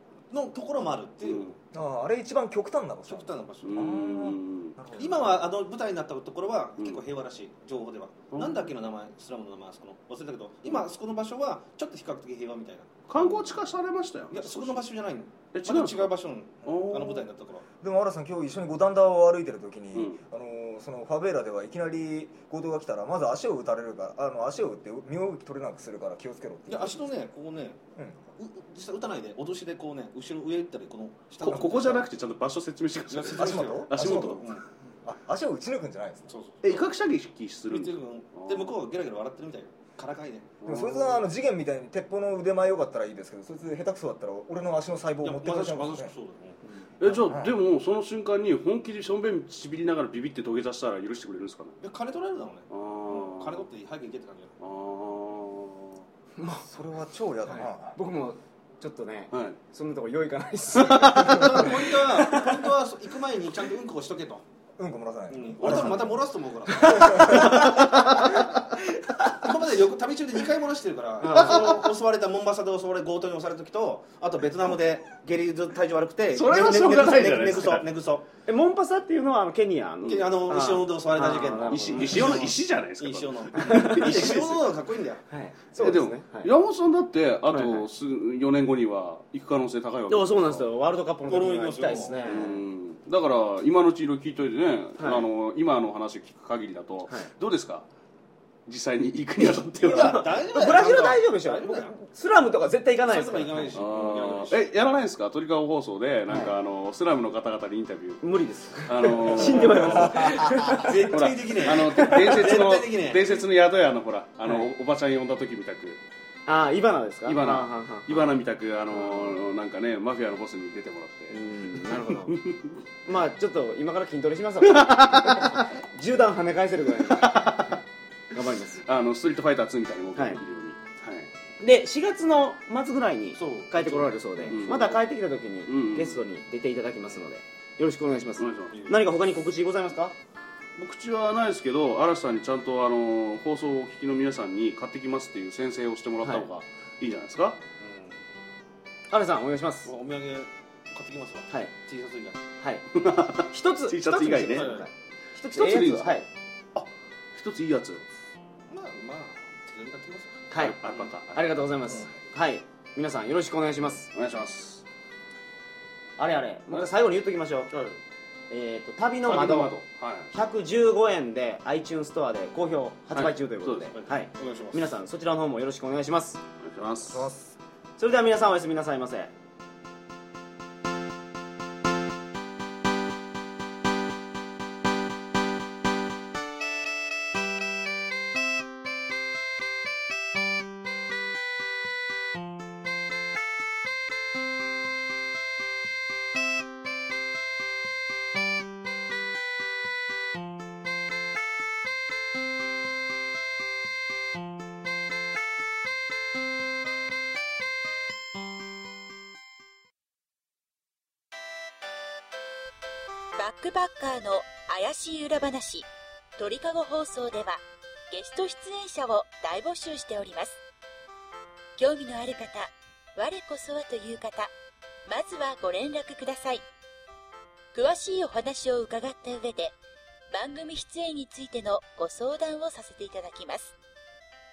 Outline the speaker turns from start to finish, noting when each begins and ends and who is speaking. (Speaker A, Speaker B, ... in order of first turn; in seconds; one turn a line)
Speaker A: 0.3-1.5
Speaker B: 1.2-1.6
Speaker C: 1.7-5.4
Speaker A: 3.1-4.0
Speaker B: 3.6-4.8
Speaker A: 4.9-13.5
Speaker B: 8.3-8.6
Speaker B: 13.1-14.8
Speaker A: 14.3-17.6
Speaker B: 15.5-16.1
Speaker B: 16.7-17.3
Speaker C: 17.8-27.1
Speaker B: 19.9-20.2
Speaker A: 26.7-27.8
Speaker C: 28.0-28.2
Speaker A: 28.4-32.0
Speaker B: 31.4-34.6
Speaker A: 33.1-34.6
Speaker C: 33.4-34.5
Speaker C: 35.0-36.3
Speaker A: 36.3-36.9
Speaker B: 36.6-38.8
Speaker A: 37.7-40.5
Speaker B: 40.6-41.2
Speaker C: 40.7-46.1
Speaker A: 45.2-46.6
Speaker B: 47.0-51.8
Speaker C: 47.0-47.6
Speaker A: 51.8-54.5
Speaker B: 52.7-53.6
Speaker B: 54.6-56.0
Speaker D: 56.4-56.7
Speaker C: 56.6-58.0
Speaker D: 57.5-62.7
Speaker B: 59.3-59.6
Speaker B: 60.7-61.9
Speaker A: 61.2-64.4
Speaker C: 64.8-66.2
Speaker A: 65.3-67.9
Speaker B: 65.6-66.1
Speaker D: 66.7-67.9
Speaker C: 66.8-67.6
Speaker B: 67.3-68.4
Speaker A: 69.3-78.3
Speaker D: 71.2-71.8
Speaker B: 76.3-77.9
Speaker D: 78.5-82.5
Speaker A: 80.0-85.2
Speaker B: 81.7-84.7
Speaker D: 83.5-84.5
Speaker D: 85.3-86.5
Speaker B: 85.8-90.7
Speaker D: 87.5-87.8
Speaker D: 90.1-92.6
Speaker A: 91.3-92.5
Speaker B: 92.2-97.9
Speaker D: 95.0-95.3
Speaker B: 98.7-100.4
Speaker D: 99.8-103.8
Speaker A: 99.8-102.0
Speaker A: 103.0-104.6
Speaker B: 103.7-108.2
Speaker D: 106.3-106.5
Speaker D: 108.2-111.1
Speaker B: 108.8-116.0
Speaker A: 109.4-110.0
Speaker C: 110.2-110.8
Speaker A: 110.7-113.4
Speaker D: 112.0-112.2
Speaker D: 114.4-114.7
Speaker D: 116.5-118.3
Speaker B: 117.3-122.8
Speaker D: 119.0-119.4
Speaker D: 121.3-122.4
Speaker D: 123.1-127.8
Speaker B: 124.6-125.7
Speaker B: 127.1-127.8
Speaker D: 128.3-128.8
Speaker B: 128.8-131.3
Speaker D: 131.6-140.1
Speaker A: 133.3-134.6
Speaker B: 134.5-135.0
Speaker B: 135.7-136.2
Speaker B: 138.4-138.8
Speaker A: 138.7-139.1
Speaker B: 140.8-147.6
Speaker D: 146.2-146.5
Speaker A: 147.8-148.2
Speaker D: 149.1-149.9
Speaker A: 149.8-152.4
Speaker D: 152.6-152.9
Speaker B: 152.9-154.8
Speaker D: 153.5-156.3
Speaker A: 154.5-154.9
Speaker B: 155.5-156.2
Speaker B: 156.8-158.0
Speaker A: 158.7-161.1
Speaker D: 160.5-160.8
Speaker B: 160.6-161.6
Speaker D: 161.3-164.1
Speaker B: 164.1-164.8
Speaker D: 166.2-167.7
Speaker B: 167.7-168.0
Speaker D: 168.5-169.8
Speaker B: 169.3-170.3
Speaker D: 170.3-176.4
Speaker B: 173.1-174.0
Speaker A: 174.0-174.9
Speaker B: 176.6-177.3
Speaker C: 177.1-177.6
Speaker D: 178.0-179.3
Speaker E: 213.4-220.6
Speaker E: 221.8-224.5
Speaker E: 225.1-226.7
Speaker E: 227.7-229.8
Speaker E: 230.3-233.8